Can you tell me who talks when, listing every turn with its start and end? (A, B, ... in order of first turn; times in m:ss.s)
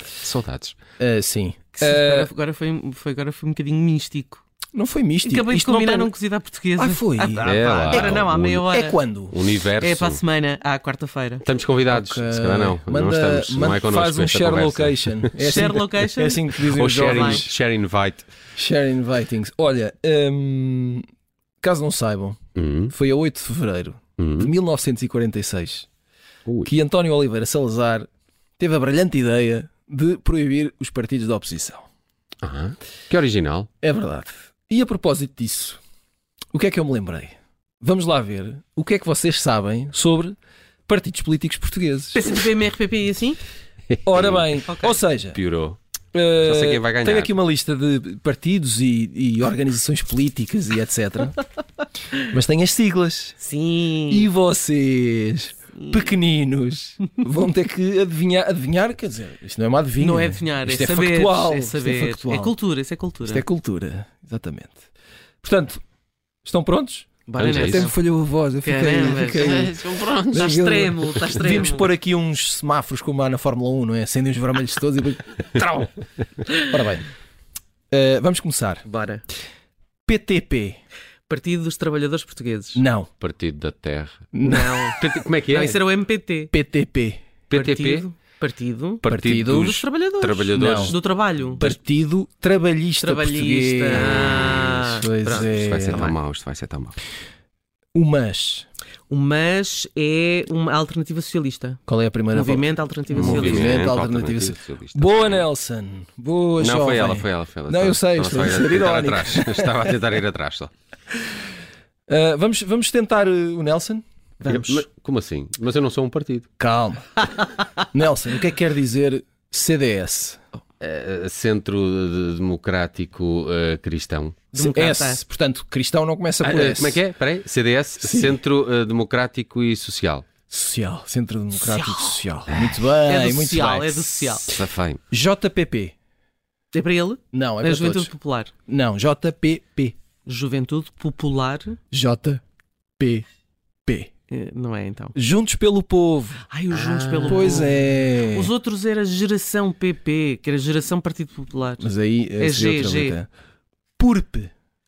0:00.2-0:00.8 A
0:01.0-0:02.3 B
0:01.8-0:04.4 C
0:04.7-0:06.1 B
0:05.2-0:09.0 C
0:06.8-0:09.3 B
0:07.4-0:08.7 A
0:09.3-0:10.2 A
0:09.8-0:11.4 C
0:11.4-0:15.6 A
0:11.9-0:17.5 B
0:15.4-0:17.4 C
0:16.6-0:18.3 A
0:18.6-0:21.0 B
0:21.6-0:22.4 B
0:22.6-0:22.9 A
0:22.9-0:25.9 B
0:24.2-0:24.5 A
0:26.6-0:31.8 B
0:32.4-0:33.7 A
0:33.8-0:35.8 B
0:36.5-0:40.3 B
0:40.9-0:42.3 B
0:42.1-0:43.4 C
0:43.9-0:44.6 A
0:44.0-0:45.4 B
0:44.7-0:45.0 C
0:45.3-0:45.8 A
0:46.1-0:51.4 B
0:46.4-0:47.3 A
0:52.2-0:53.4 B
0:53.4-0:54.3 C
0:54.1-1:02.5 B
1:00.0-1:03.4 C
1:03.2-1:04.8 B
1:05.4-1:05.8 B
1:06.4-1:15.9 B
1:07.3-1:08.0 C
1:07.4-1:07.9 A
1:08.6-1:09.8 C
1:09.4-1:10.5 A
1:10.3-1:11.9 C
1:16.6-1:17.0 B
1:17.9-1:18.8 B
1:18.8-1:19.2 C
1:20.1-1:20.8 B
1:21.3-1:22.8 C
1:22.7-1:23.1 B
1:23.2-1:24.3 A
1:24.3-1:24.9 B
1:24.4-1:26.5 C
1:24.9-1:25.8 A
1:26.5-1:27.2 B
1:27.5-1:28.1 A
1:27.5-1:31.7 C
1:29.0-1:31.0 A
1:29.1-1:29.8 B
1:30.5-1:30.9 B
1:31.6-1:36.1 B
1:33.0-1:36.1 C
1:33.9-1:34.8 A
1:35.3-1:37.0 A
1:37.9-1:38.6 B
1:39.1-1:41.8 C
1:41.9-1:49.7 B
1:42.3-1:43.9 C
1:43.1-1:45.4 A
1:46.6-1:50.7 A
1:52.1-1:54.0 B
1:54.4-1:54.8 C
1:54.4-1:56.5 A
1:56.6-1:57.1 B
1:57.3-1:57.6 C
1:57.9-2:00.4 B
2:00.8-2:04.4 A
2:04.5-2:05.2 C
2:04.5-2:07.0 B
2:06.4-2:10.2 A
2:08.0-2:08.4 B
2:10.5-2:14.4 B
2:11.6-2:12.2 C
2:12.5-2:12.8 A
2:13.0-2:14.5 C
2:14.5-2:15.0 A
2:15.1-2:15.9 B
2:16.7-2:18.5 C
2:17.3-2:18.1 B
2:18.7-2:19.9 B
2:20.2-2:21.8 C
2:21.9-2:22.4 B
2:23.0-2:23.2 B
2:24.3-2:25.1 C
2:25.2-2:26.4 B
2:26.5-2:33.2 C
2:26.7-2:27.6 A
2:27.3-2:28.5 B
2:31.8-2:33.3 B
2:34.0-2:34.5 B